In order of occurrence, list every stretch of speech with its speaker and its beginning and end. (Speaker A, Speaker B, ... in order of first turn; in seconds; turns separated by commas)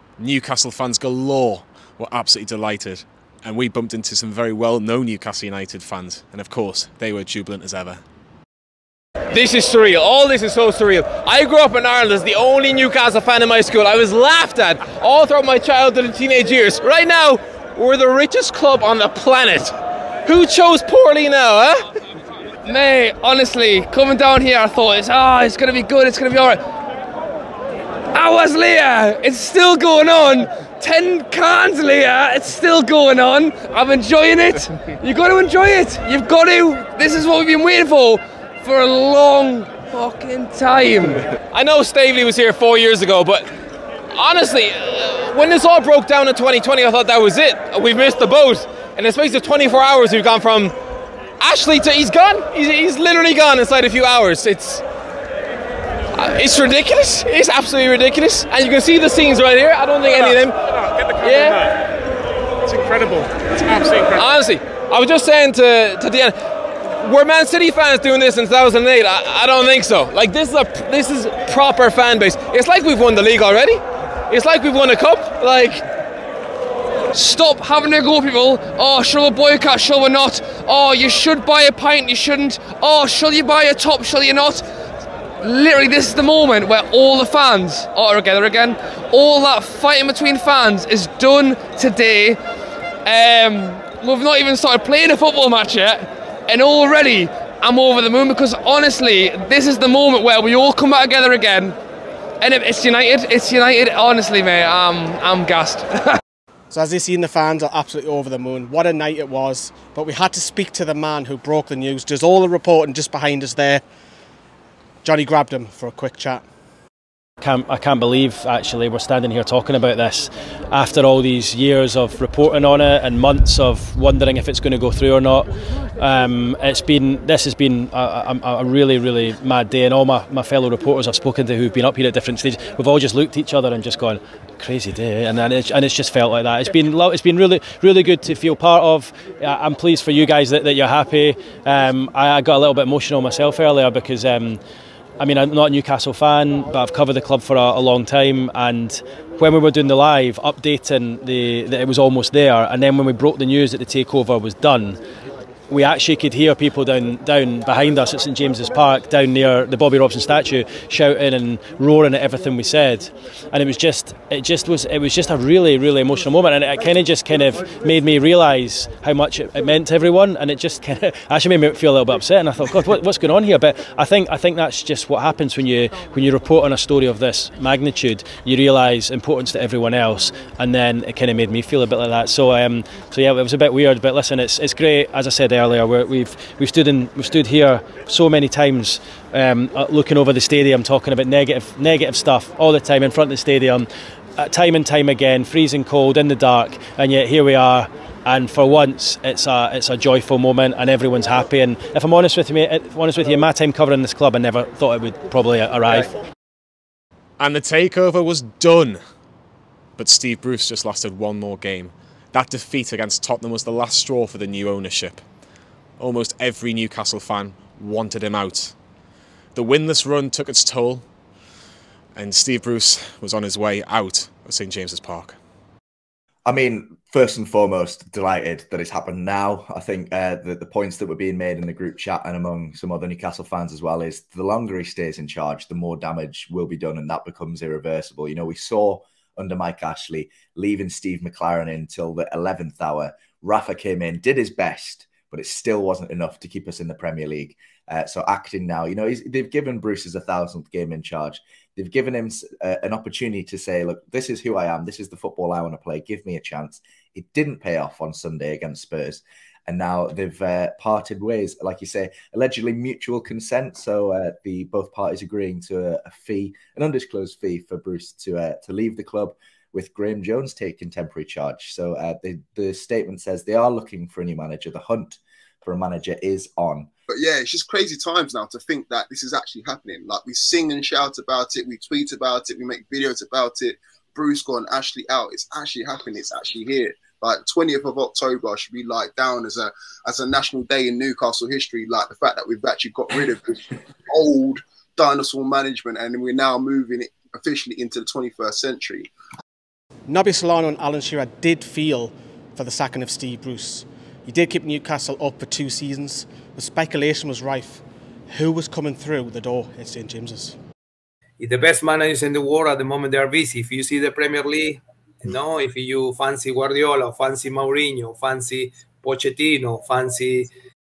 Speaker A: 0.2-8.0, Speaker B: 9.3-21.9, Speaker C: 22.6-26.6, Speaker C: 28.1-41.2, Speaker B: 41.5-43.5, Speaker B: 44.1-50.8, Speaker B: 51.4-54.8, Speaker B: 56.1-60.6, Speaker A: 60.1-61.8, Speaker B: 61.2-61.6, Speaker A: 62.6-64.3, Speaker B: 64.1-66.4, Speaker B: 67.0-75.9, Speaker C: 77.1-84.6, Speaker C: 85.4-92.4, Speaker C: 93.0-101.8, Speaker C: 102.4-106.2, Speaker D: 106.7-113.8, Speaker D: 115.0-116.4, Speaker E: 117.4-144.6, Speaker E: 145.2-155.0, Speaker E: 155.7-206.1, Speaker A: 207.4-209.0, Speaker A: 210.0-215.2, Speaker A: 216.0-218.8, Speaker A: 219.5-221.0, Speaker A: 222.1-225.4, Speaker F: 226.4-276.9, Speaker G: 277.1-299.1, Speaker D: 300.1-310.6, Speaker H: 311.4-320.5